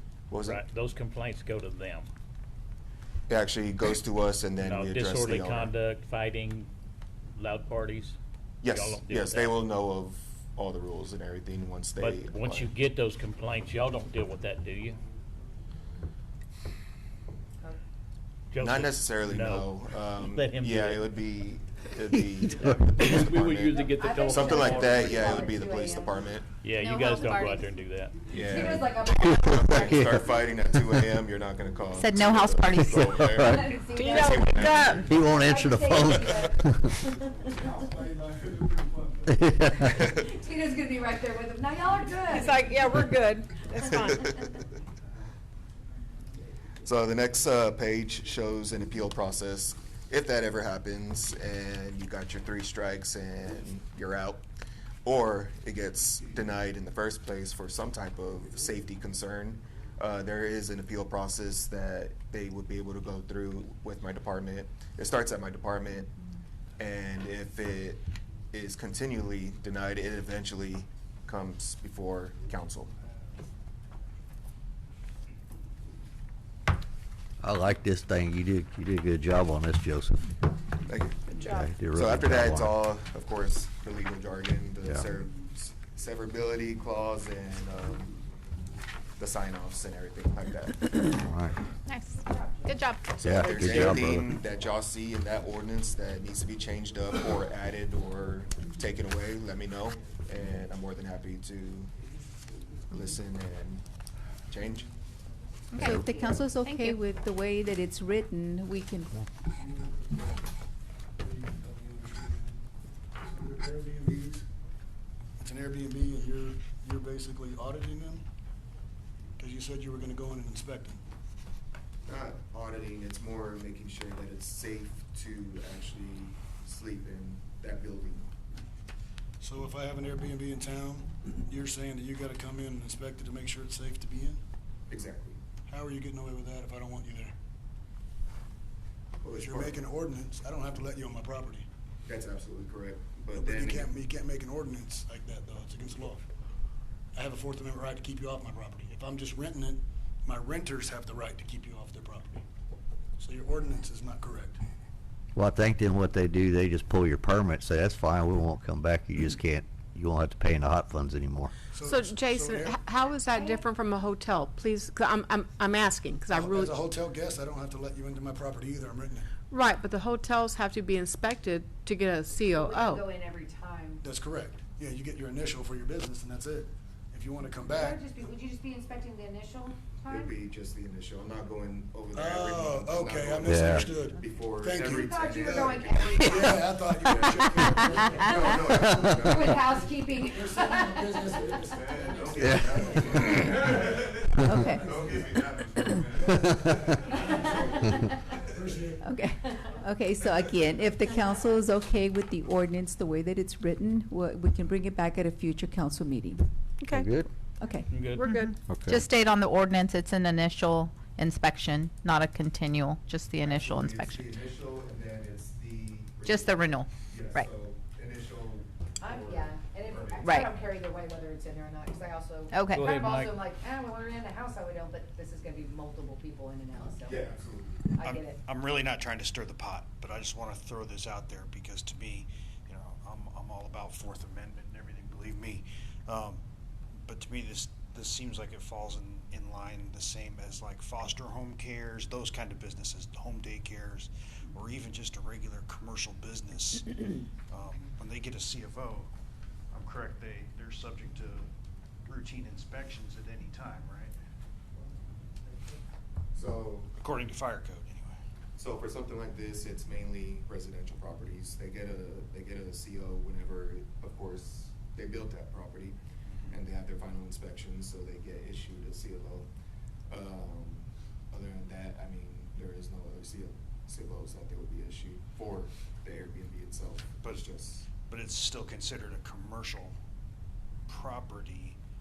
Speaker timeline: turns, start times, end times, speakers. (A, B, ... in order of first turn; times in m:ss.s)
0:00.3-0:00.6 A
0:00.4-0:02.1 B
0:03.3-0:05.7 A
0:04.6-0:06.7 B
0:07.4-0:09.6 B
0:08.6-0:12.7 A
0:12.0-0:15.0 B
0:18.5-0:21.1 B
0:18.6-0:26.5 A
0:23.0-0:25.4 B
0:23.7-0:26.2 C
0:26.6-0:28.2 B
0:27.0-0:27.6 D
0:28.3-0:35.1 A
0:28.4-0:30.2 C
0:29.3-0:30.2 E
0:31.9-0:33.3 F
0:32.8-0:33.8 E
0:33.4-0:37.7 C
0:33.9-0:35.0 D
0:34.7-0:35.0 F
0:35.0-0:37.0 E
0:37.5-0:39.2 G
0:39.3-0:39.9 E
0:39.8-0:40.2 A
0:40.0-0:42.7 C
0:42.3-0:44.5 D
0:43.9-0:44.3 A
0:46.8-0:54.4 A
0:55.0-1:06.1 A
1:06.8-1:12.9 A
1:17.4-1:20.3 E
1:20.9-1:21.4 A
1:21.3-1:21.7 D
1:21.4-1:22.8 E
1:21.9-1:28.2 A
1:24.8-1:25.1 E
1:29.2-1:31.2 A
1:31.1-1:31.6 E
1:32.2-1:32.8 C
1:32.7-1:33.0 F
1:33.1-1:41.9 A
1:33.2-1:34.4 E
1:42.9-1:43.8 A
1:44.5-1:44.9 A
1:45.8-1:49.2 H
1:49.6-1:50.4 G
1:51.2-1:52.6 G
1:53.2-1:54.5 G
1:55.4-1:58.2 G
1:59.4-2:01.0 G
2:02.1-2:08.3 A
2:09.4-2:14.4 G
2:14.9-2:15.4 A
2:15.7-2:17.3 G
2:19.2-2:19.8 A
2:19.3-2:21.7 G
2:22.1-2:23.9 A
2:23.3-2:26.2 G
2:27.1-2:32.4 G
2:33.2-2:34.6 G
2:35.4-2:41.5 E
2:41.7-2:42.8 G
2:41.8-2:46.8 D
2:43.3-2:43.6 C
2:46.3-2:49.3 G
2:49.5-2:53.0 D
2:52.4-2:54.0 C
2:54.0-2:58.0 G
2:57.5-3:00.4 C
3:00.1-3:09.9 A
3:02.1-3:08.8 G
3:03.4-3:03.9 E
3:04.9-3:06.8 C
3:08.3-3:12.0 C
3:10.3-3:13.9 G
3:11.6-3:17.9 A
3:12.4-3:12.8 E
3:14.4-3:14.9 H
3:14.7-3:15.3 G
3:16.4-3:17.5 G
3:17.1-3:18.2 C
3:18.4-3:19.1 G
3:19.0-3:26.4 H
3:26.8-3:27.1 D
3:26.9-3:27.3 E
3:27.6-3:28.1 H
3:27.9-3:28.4 B
3:28.2-3:28.6 D
3:28.2-3:34.3 F
3:28.7-3:29.0 E
3:33.4-3:40.5 A
3:36.2-3:37.5 F
3:39.0-3:47.3 C
3:40.2-3:40.5 F
3:42.5-3:42.9 F
3:42.7-3:43.4 B
3:47.0-3:47.8 A
3:48.0-3:48.4 C
3:48.0-3:56.4 I
3:57.0-4:09.1 I
4:09.7-4:11.5 I
4:12.0-4:14.1 I
4:16.3-4:16.9 A
4:17.0-4:18.2 I
4:18.6-4:26.0 A
4:26.5-4:29.5 A
4:30.1-4:37.9 A
4:37.2-4:37.5 I
4:38.0-4:39.9 I
4:40.9-4:41.8 I